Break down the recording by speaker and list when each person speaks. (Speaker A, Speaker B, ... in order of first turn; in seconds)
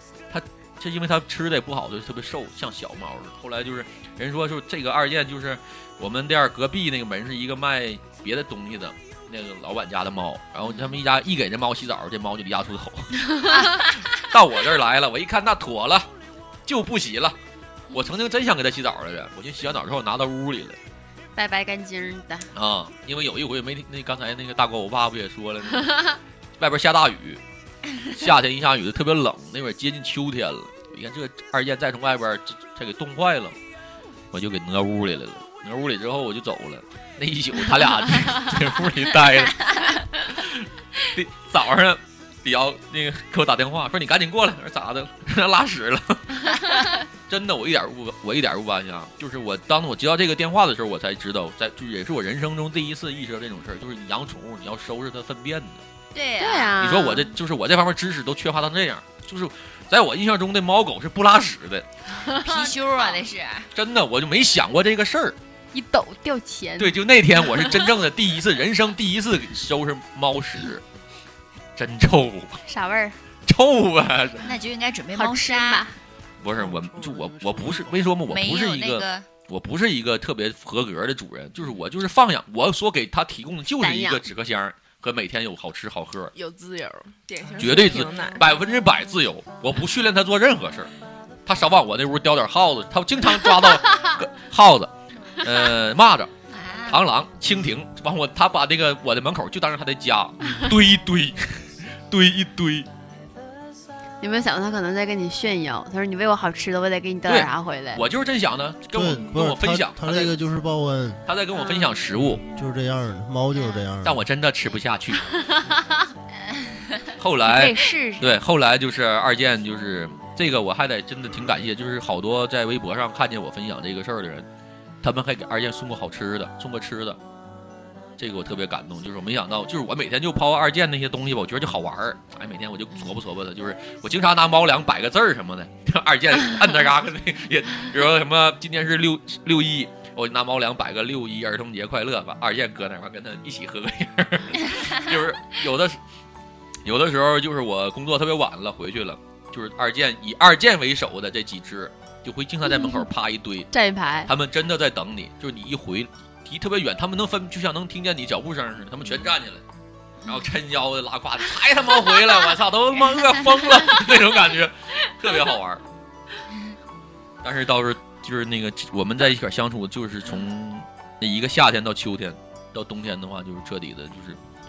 Speaker A: 0.3-16.1, 16.7-17.4, 17.9-20.8, 22.5-27.4, 28.1-33.6, 34.3-39.7, 40.3-55.8, 56.8-61.9, 63.7-65.3, 66.8-70.8, 71.8-72.6, 73.4-74.5, 76.4-86.3, 87.6-90.9, 91.5-96.3, 96.9-102.9, 107.2-110.3, 111.2-112.4, 114.0-115.2, 117.2-124.5, 125.0-127.2, 128.2-146.0, 146.8-153.7, 154.2-159.6, 160.2-165.8, 167.4-174.4
Speaker B: 10.6-11.0, 13.4-14.0, 56.1-56.7, 62.4-63.7, 74.4-75.8, 78.3-79.3, 96.5-97.0, 116.5-118.2, 132.9-133.2, 160.2-160.5, 166.5-166.8
Speaker C: 21.3-22.5, 56.4-57.3, 62.2-62.7, 65.7-66.9, 72.7-73.2, 75.1-76.0, 83.7-84.3, 104.2-108.0, 115.4-115.9, 117.5-118.2, 152.8-153.0, 153.7-154.3
Speaker D: 76.6-78.0, 86.3-88.5
Speaker E: 108.9-111.2, 112.2-114.2